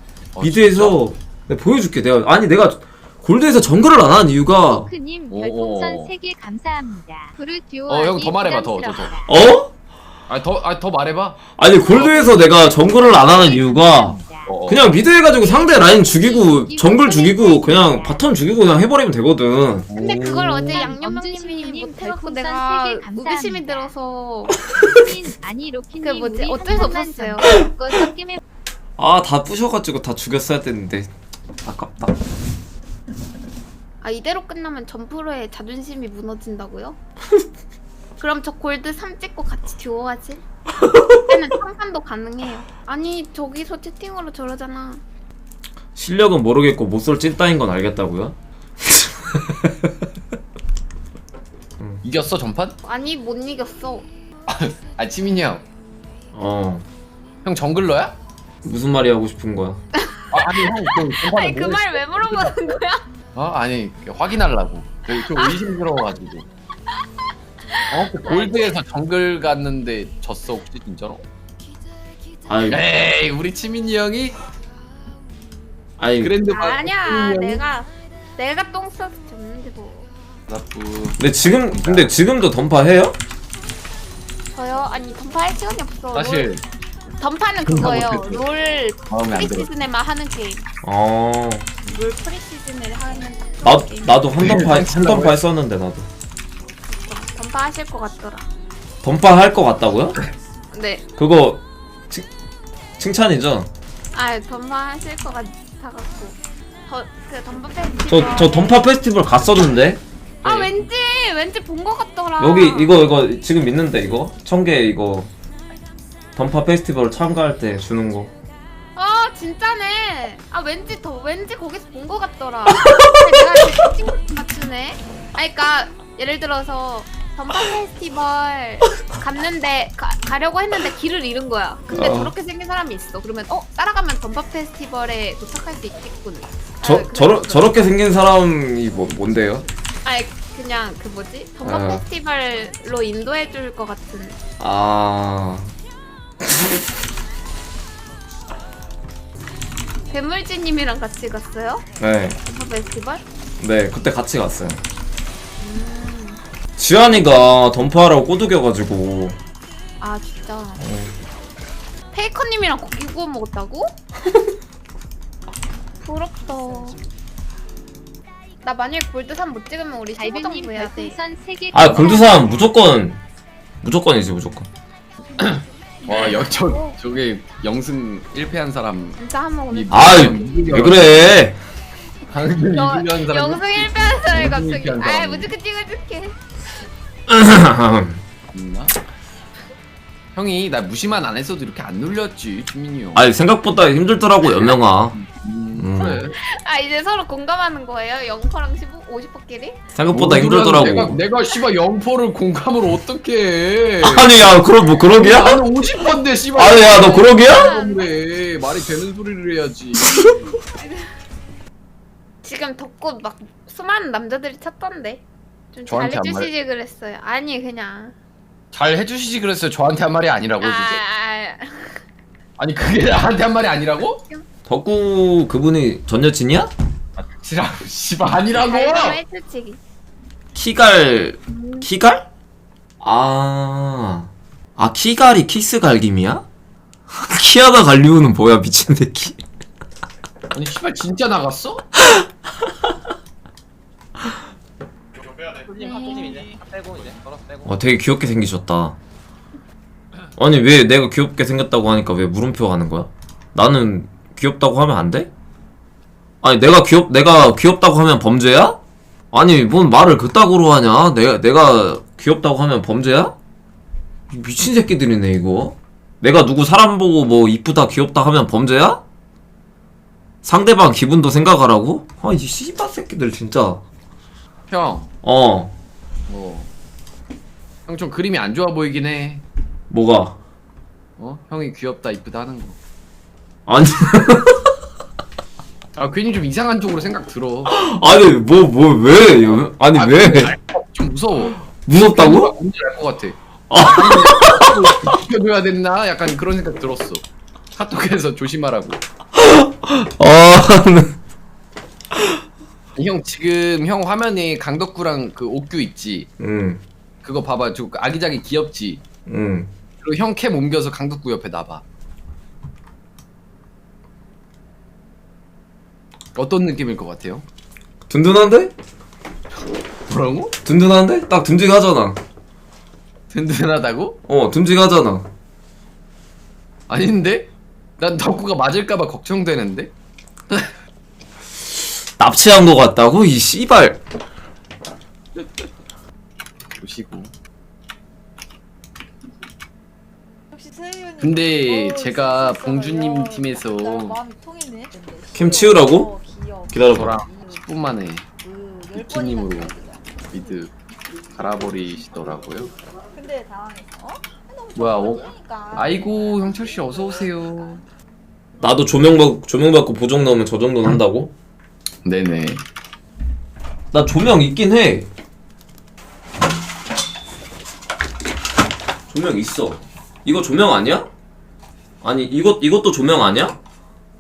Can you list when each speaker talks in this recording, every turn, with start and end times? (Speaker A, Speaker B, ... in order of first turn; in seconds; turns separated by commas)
Speaker A: 0.3-1.0, Speaker B: 0.4-4.9, Speaker C: 4.7-9.3, Speaker A: 5.3-6.1, Speaker A: 7.9-9.1, Speaker B: 9.3-9.7, Speaker A: 10.3-12.3, Speaker B: 11.6-14.2, Speaker C: 12.7-14.5, Speaker A: 14.5-15.0, Speaker B: 14.7-20.4, Speaker C: 15.3-18.2, Speaker A: 19.9-20.9, Speaker D: 19.9-24.6, Speaker C: 20.7-23.9, Speaker C: 24.8-28.4, Speaker D: 26.0-27.5, Speaker B: 27.4-28.0, Speaker B: 29.0-31.1, Speaker B: 31.6-32.1, Speaker D: 34.0-37.0, Speaker D: 38.2-40.5, Speaker B: 40.8-41.1, Speaker D: 41.2-45.0, Speaker B: 46.0-49.9, Speaker A: 52.0-52.8, Speaker D: 52.8-54.1, Speaker A: 54.5-55.6, Speaker B: 56.3-56.9, Speaker A: 57.4-58.1, Speaker B: 58.6-59.8, Speaker D: 60.0-63.0, Speaker A: 60.3-62.6, Speaker A: 63.4-66.5, Speaker D: 65.3-65.6, Speaker D: 67.7-68.7, Speaker A: 67.9-71.2, Speaker B: 72.5-72.8, Speaker A: 72.7-74.4, Speaker B: 76.0-76.3, Speaker A: 76.2-77.6, Speaker D: 76.5-80.1, Speaker A: 80.5-82.1, Speaker B: 81.2-83.2, Speaker D: 84.5-86.5, Speaker A: 86.1-86.6, Speaker D: 87.2-90.7, Speaker A: 87.7-88.5, Speaker A: 89.1-89.7, Speaker B: 90.8-91.7, Speaker D: 91.9-94.2, Speaker B: 93.6-96.1, Speaker A: 94.4-95.4, Speaker D: 96.8-98.5, Speaker B: 99.0-100.2, Speaker D: 100.7-101.0, Speaker B: 101.2-102.3, Speaker B: 103.0-103.7, Speaker D: 104.1-108.8, Speaker B: 108.1-110.0, Speaker D: 110.4-112.9, Speaker A: 110.5-110.7, Speaker B: 112.4-115.3, Speaker B: 116.3-118.3, Speaker D: 119.0-137.8, Speaker B: 131.9-132.3, Speaker B: 136.8-139.7, Speaker D: 140.0-144.4, Speaker B: 141.7-142.1, Speaker B: 144.6-145.7, Speaker D: 150.1-151.8, Speaker B: 152.0-152.4, Speaker D: 152.4-153.2, Speaker B: 153.6-154.8, Speaker D: 155.6-156.4, Speaker B: 156.8-159.4, Speaker D: 160.0-160.8, Speaker B: 160.8-161.1, Speaker D: 162.1-163.9, Speaker D: 166.0-167.0, Speaker D: 168.6-171.2, Speaker C: 170.2-172.5, Speaker B: 171.7-173.2, Speaker B: 173.8-174.7, Speaker A: 175.4-179.2, Speaker D: 176.1-176.9, Speaker D: 179.2-180.6, Speaker A: 179.7-181.4, Speaker B: 179.9-181.6, Speaker A: 182.3-185.5, Speaker D: 182.7-186.4, Speaker B: 187.3-188.2, Speaker A: 188.5-189.0, Speaker A: 190.3-193.2, Speaker B: 193.1-195.2, Speaker A: 195.2-196.3, Speaker B: 195.8-196.3, Speaker D: 196.3-199.8, Speaker B: 199.9-201.2, Speaker A: 200.1-204.6, Speaker B: 204.0-205.6, Speaker A: 205.1-210.2, Speaker B: 206.6-207.7, Speaker D: 206.9-208.2, Speaker D: 212.4-218.2, Speaker A: 215.9-216.5, Speaker A: 218.7-221.0, Speaker D: 220.6-222.0, Speaker A: 222.6-224.2, Speaker B: 224.7-226.7, Speaker A: 227.2-229.2, Speaker D: 228.6-229.8, Speaker B: 230.6-232.3, Speaker D: 231.5-231.9, Speaker B: 233.0-236.4, Speaker B: 237.1-239.4, Speaker A: 240.5-241.9, Speaker D: 245.7-246.5, Speaker B: 247.7-249.0, Speaker B: 250.4-255.3, Speaker B: 256.4-258.8, Speaker B: 259.3-263.4, Speaker B: 264.3-269.0, Speaker B: 270.4-273.8, Speaker A: 274.7-275.1, Speaker B: 275.2-275.7, Speaker A: 276.3-276.7, Speaker A: 277.9-279.4, Speaker B: 279.9-280.4, Speaker A: 281.2-282.8, Speaker B: 283.7-284.6, Speaker A: 286.0-287.8, Speaker B: 287.7-290.5, Speaker A: 289.5-297.2, Speaker B: 291.7-292.5, Speaker B: 293.7-295.0, Speaker A: 297.8-299.0, Speaker B: 299.4-301.2, Speaker A: 303.0-306.3, Speaker B: 306.4-306.8, Speaker A: 307.2-309.0, Speaker B: 309.3-309.7, Speaker A: 310.0-311.8, Speaker A: 316.4-317.4, Speaker B: 318.1-318.7, Speaker A: 320.1-320.5, Speaker B: 320.6-322.2, Speaker A: 323.3-324.2, Speaker B: 324.3-325.3, Speaker A: 326.9-329.9, Speaker B: 332.2-334.0, Speaker A: 336.8-337.3, Speaker E: 340.5-347.8, Speaker A: 341.2-344.2, Speaker B: 345.3-346.1, Speaker B: 346.7-347.1, Speaker A: 346.9-348.2, Speaker E: 348.4-350.6, Speaker A: 348.9-349.7, Speaker A: 350.3-350.7, Speaker A: 351.4-352.7, Speaker E: 353.1-357.8, Speaker A: 354.8-357.8, Speaker B: 358.6-361.3, Speaker A: 362.1-362.6, Speaker B: 363.9-365.1, Speaker B: 369.1-371.1, Speaker B: 372.0-373.6